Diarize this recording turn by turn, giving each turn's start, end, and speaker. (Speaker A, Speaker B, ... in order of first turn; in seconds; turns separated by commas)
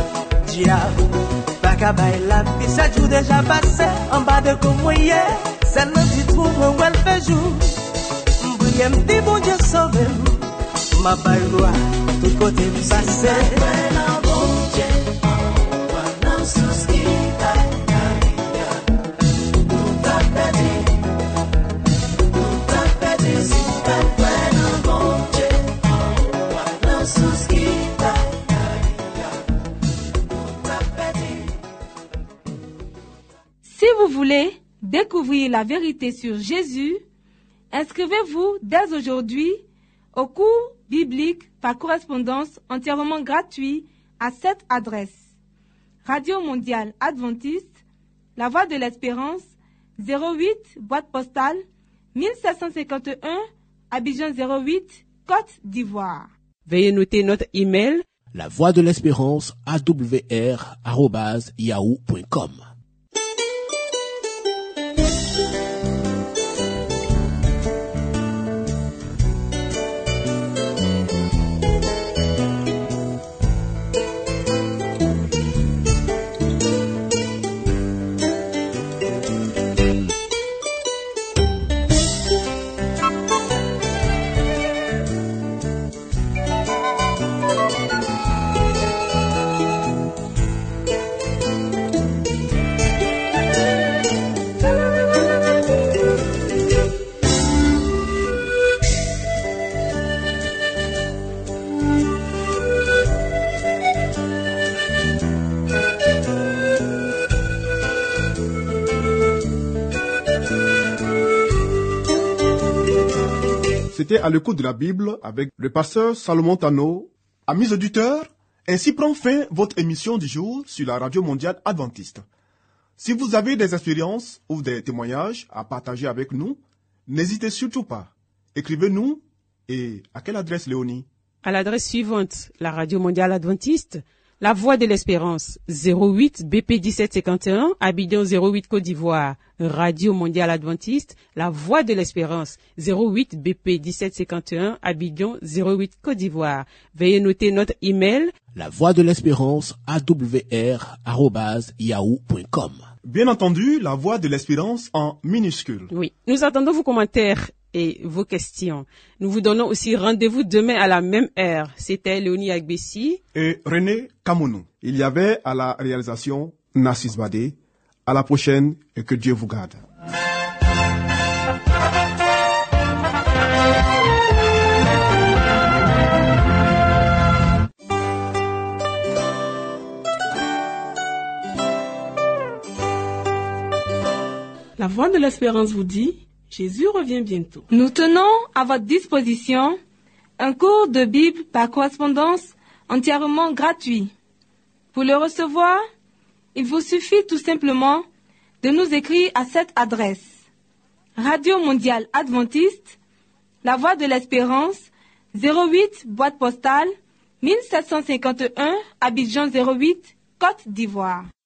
Speaker A: 0.4-1.1, Speaker A: 1.6-7.7, Speaker A: 8.4-15.1, Speaker A: 16.3-17.8, Speaker A: 19.9-20.8, Speaker A: 22.8-25.5, Speaker A: 26.9-28.1, Speaker A: 30.8-31.2, Speaker B: 33.6-37.0, Speaker B: 37.7-39.6, Speaker B: 40.1-45.2, Speaker B: 46.0-47.7, Speaker B: 48.4-49.5, Speaker B: 50.0-51.6, Speaker B: 52.1-56.3, Speaker C: 56.6-58.0, Speaker D: 58.3-62.6, Speaker E: 113.9-122.2, Speaker E: 123.0-131.1, Speaker C: 131.4-148.3, Speaker D: 148.5-152.8, Speaker E: 153.0-155.9, Speaker C: 155.9-163.2, Speaker E: 163.3-167.6, Speaker E: 168.1-169.8, Speaker F: 184.8-187.7, Speaker B: 187.7-189.8, Speaker B: 190.4-194.1, Speaker B: 194.9-195.8, Speaker B: 196.5-198.0, Speaker B: 198.6-200.3, Speaker B: 201.2-202.9, Speaker B: 203.6-206.9, Speaker B: 207.4-211.3